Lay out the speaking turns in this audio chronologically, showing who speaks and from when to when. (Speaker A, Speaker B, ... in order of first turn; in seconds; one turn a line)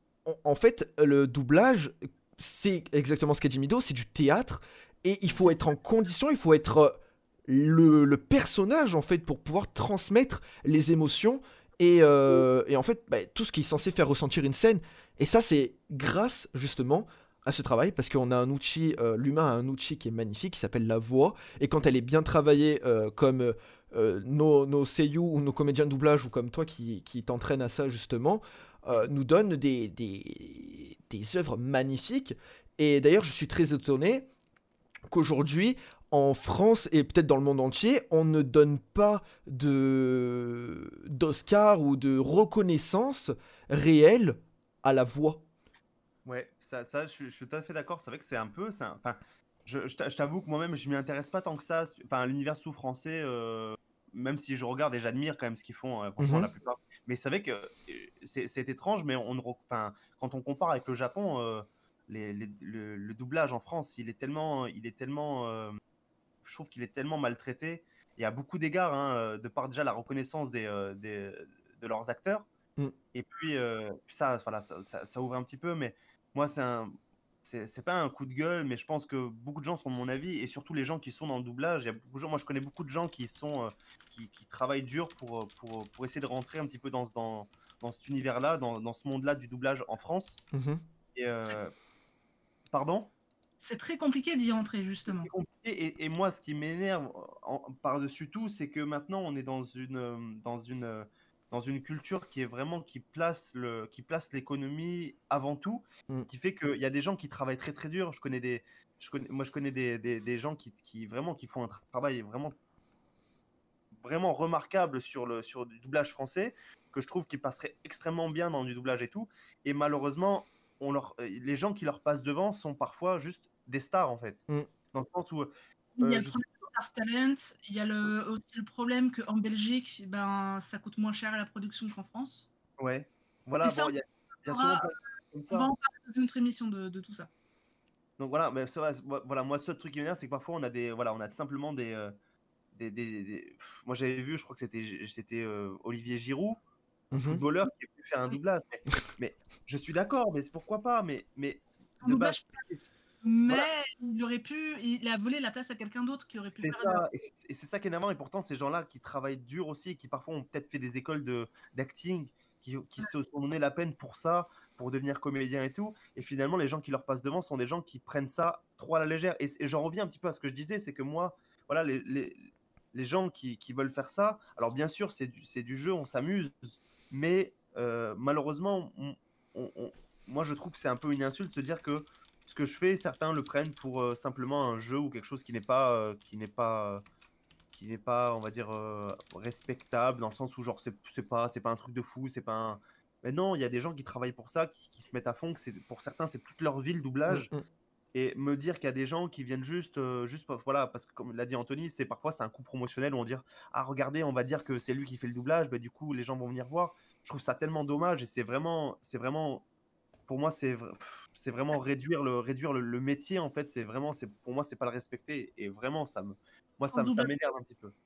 Speaker A: 0.2-34.3
Speaker B: 5.3-5.6
Speaker A: 35.1-45.4
Speaker B: 46.2-65.8
Speaker A: 56.2-56.5
Speaker B: 66.4-72.5
Speaker B: 73.1-90.4
Speaker A: 90.5-90.8
Speaker B: 91.1-91.7
Speaker B: 92.7-93.1
Speaker C: 93.6-95.3
Speaker B: 95.0-112.5
Speaker B: 114.0-124.4
Speaker B: 124.9-126.4
Speaker C: 126.0-132.5
Speaker B: 132.8-135.7
Speaker C: 133.6-133.9
Speaker C: 134.4-134.9
Speaker C: 135.5-137.3
Speaker B: 138.2-142.1
Speaker B: 142.7-146.6
Speaker A: 147.1-147.4
Speaker B: 147.1-152.9
Speaker C: 152.0-152.6
Speaker C: 153.2-157.0
Speaker B: 156.6-187.0
Speaker B: 187.7-197.5
Speaker A: 197.3-197.6
Speaker B: 198.1-209.6
Speaker B: 210.3-217.9
Speaker C: 216.9-217.3